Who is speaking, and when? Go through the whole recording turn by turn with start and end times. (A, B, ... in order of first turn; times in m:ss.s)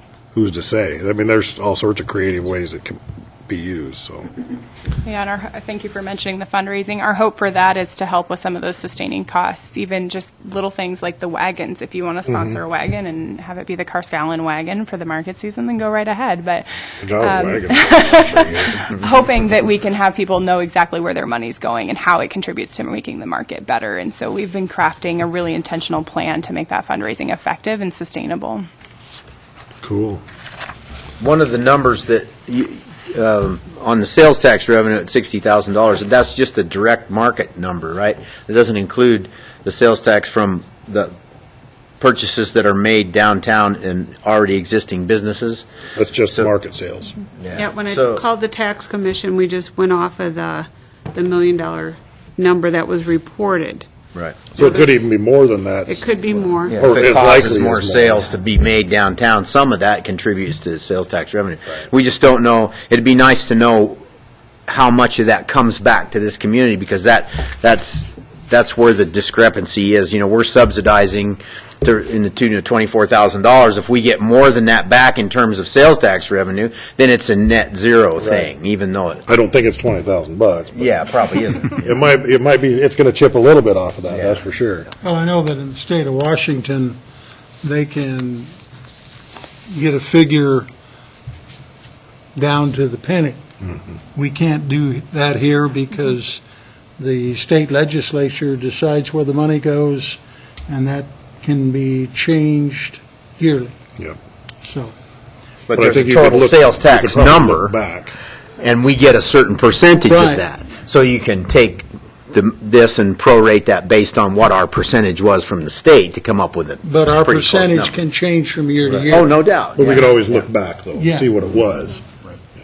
0:00.3-0:04.3 A
0:05.0-0:28.6 B
0:17.0-0:18.8 A
0:29.8-0:30.2 A
0:31.2-0:41.1 C
0:42.0-0:45.7 C
0:46.0-0:47.2 A
0:47.4-0:48.2 C
0:47.6-0:53.9 D
0:54.1-0:54.4 C
0:54.6-0:56.0 A
0:54.6-0:55.0 D
0:55.9-0:57.0 D
0:56.7-1:04.0 C
0:56.7-0:58.3 A
1:04.7-1:19.2 C
1:18.2-1:18.5 A
1:19.3-1:21.0 A
1:20.8-1:21.7 C
1:21.7-1:24.9 A
1:24.1-1:24.4 C
1:25.0-1:27.0 E
1:27.6-1:28.5 E
1:29.7-1:30.7 E
1:32.4-1:33.4 E
1:34.1-1:36.4 E
1:37.0-1:43.7 E
1:44.6-1:44.9 E
1:45.7-1:47.8 C
1:45.7-1:48.2 A
1:48.6-1:57.9 C
1:50.0-1:50.4 E
1:56.8-1:59.3 E
1:59.1-2:00.4 C
1:59.8-2:02.0 A
2:01.0-2:01.3 E